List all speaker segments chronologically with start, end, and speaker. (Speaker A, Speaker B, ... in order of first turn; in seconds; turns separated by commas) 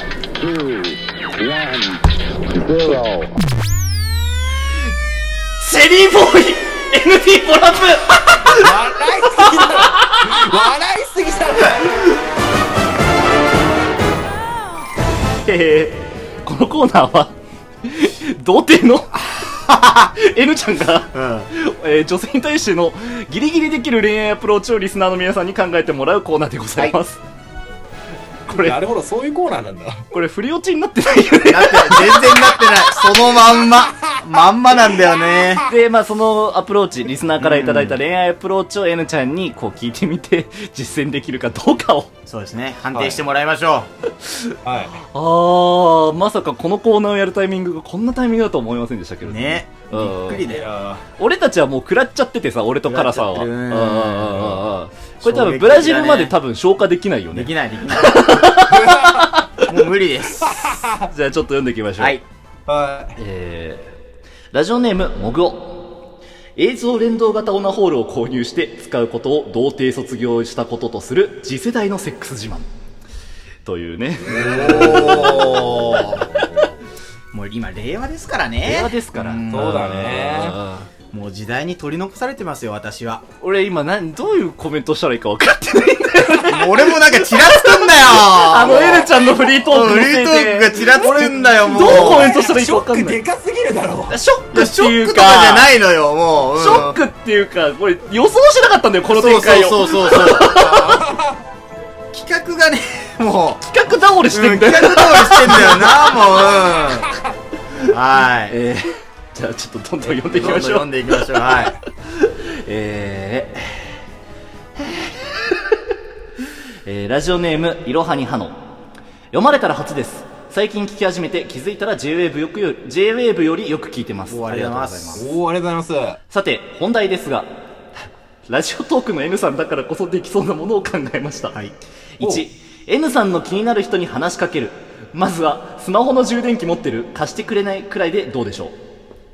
Speaker A: 0.4-2.0, Speaker A: 2.6-3.3, Speaker B: 5.6-8.7, Speaker C: 8.5-12.0, Speaker B: 9.7-10.2, Speaker B: 15.4-27.2, Speaker D: 19.4-20.1, Speaker D: 21.1-21.5, Speaker B: 28.5-28.8, Speaker C: 28.5-30.0, Speaker B: 30.1-33.1, Speaker D: 31.4-35.7, Speaker B: 35.7-42.1, Speaker D: 37.4-38.0, Speaker D: 42.3-43.9, Speaker C: 42.9-43.2, Speaker B: 44.2-44.5, Speaker C: 44.6-45.0, Speaker B: 45.1-50.4, Speaker D: 49.2-50.6, Speaker C: 50.5-51.0, Speaker B: 51.2-59.6, Speaker D: 52.9-54.6, Speaker D: 55.2-56.4, Speaker D: 57.3-58.3, Speaker C: 58.7-59.3, Speaker D: 59.6-60.6, Speaker C: 60.4-61.1, Speaker B: 61.1-62.2, Speaker D: 62.0-62.2, Speaker C: 62.7-63.2, Speaker B: 63.2-63.9, Speaker B: 64.5-65.9, Speaker B: 66.6-72.7, Speaker B: 73.6-76.4, Speaker D: 74.3-76.3, Speaker C: 74.4-75.5, Speaker D: 77.3-80.2, Speaker B: 78.6-80.9, Speaker C: 79.5-80.6, Speaker D: 81.1-83.2, Speaker B: 83.4-93.2, Speaker D: 86.5-92.3, Speaker C: 90.9-94.1, Speaker B: 94.1-95.7, Speaker D: 94.5-97.0, Speaker B: 96.5-101.0, Speaker D: 99.1-100.7, Speaker C: 100.6-101.4, Speaker D: 102.1-103.6, Speaker B: 103.6-106.5, Speaker D: 104.3-107.1, Speaker C: 106.9-107.1, Speaker D: 107.9-108.6, Speaker B: 108.5-113.9, Speaker D: 110.0-111.8, Speaker B: 114.8-115.8, Speaker B: 116.8-118.6, Speaker B: 119.3-125.3, Speaker D: 124.3-125.2, Speaker C: 125.1-126.2, Speaker B: 126.3-127.5, Speaker B: 128.5-131.6, Speaker B: 132.2-138.8, Speaker C: 132.2-132.5